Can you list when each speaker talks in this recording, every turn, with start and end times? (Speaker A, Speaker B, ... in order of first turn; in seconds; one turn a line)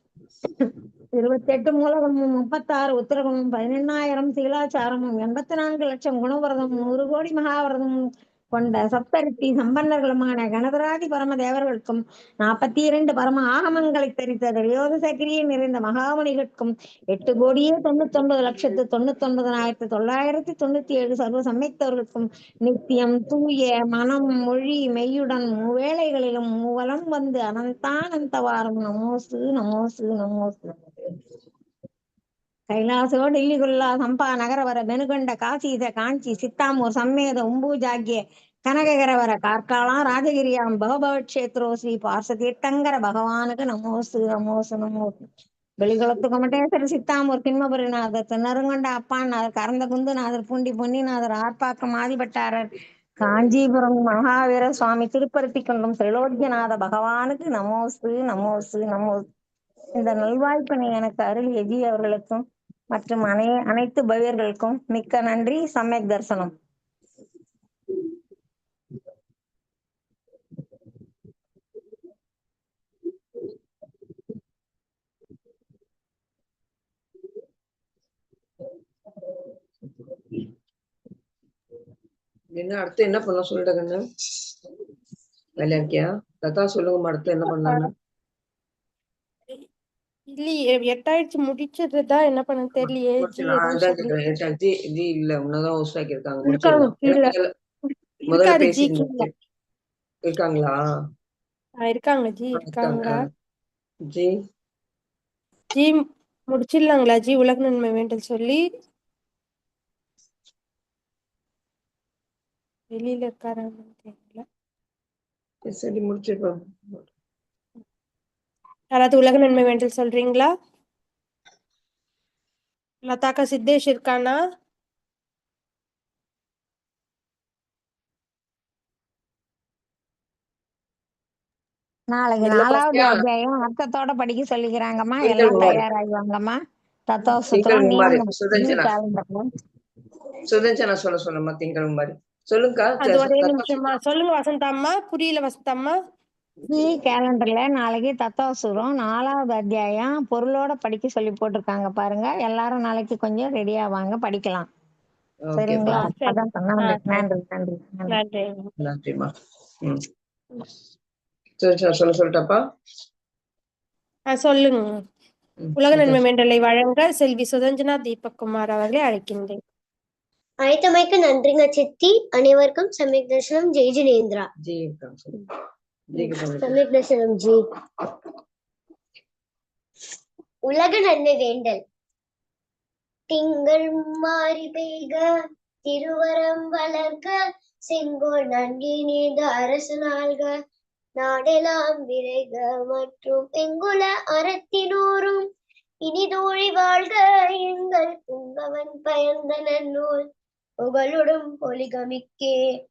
Speaker A: 0.6-30.8
Speaker A: 32.7-45.2
Speaker A: 45.8-52.7
Speaker A: 53.2-59.2
Speaker A: 59.9-66.5
Speaker B: 82.5-84.0
Speaker B: 85.6-87.9
Speaker C: 90.3-94.1
Speaker B: 92.8-97.5
Speaker C: 96.4-97.3
Speaker B: 98.3-99.3
Speaker C: 98.3-99.3
Speaker B: 100.2-100.8
Speaker C: 101.8-103.1
Speaker B: 102.6-103.3
Speaker C: 105.7-108.6
Speaker C: 112.9-114.4
Speaker B: 115.7-117.0
Speaker C: 118.9-120.5
Speaker C: 123.0-124.3
Speaker A: 132.1-136.6
Speaker B: 132.4-133.2
Speaker B: 135.2-135.8
Speaker A: 137.1-139.5
Speaker B: 137.4-138.9
Speaker B: 140.5-143.9
Speaker C: 143.0-146.0
Speaker A: 146.7-154.7
Speaker B: 155.4-156.1
Speaker A: 155.6-158.2
Speaker C: 155.9-157.0
Speaker C: 158.1-158.7
Speaker B: 158.8-159.3
Speaker B: 161.6-162.6
Speaker C: 164.3-165.0
Speaker B: 165.6-166.2
Speaker C: 165.8-169.6
Speaker D: 170.6-174.5
Speaker B: 174.6-175.4
Speaker B: 176.1-176.8
Speaker D: 176.2-177.6
Speaker D: 180.7-181.8
Speaker D: 183.3-185.2
Speaker D: 185.8-187.4
Speaker D: 187.9-190.5
Speaker D: 191.2-195.4
Speaker D: 196.1-200.1
Speaker D: 200.8-202.5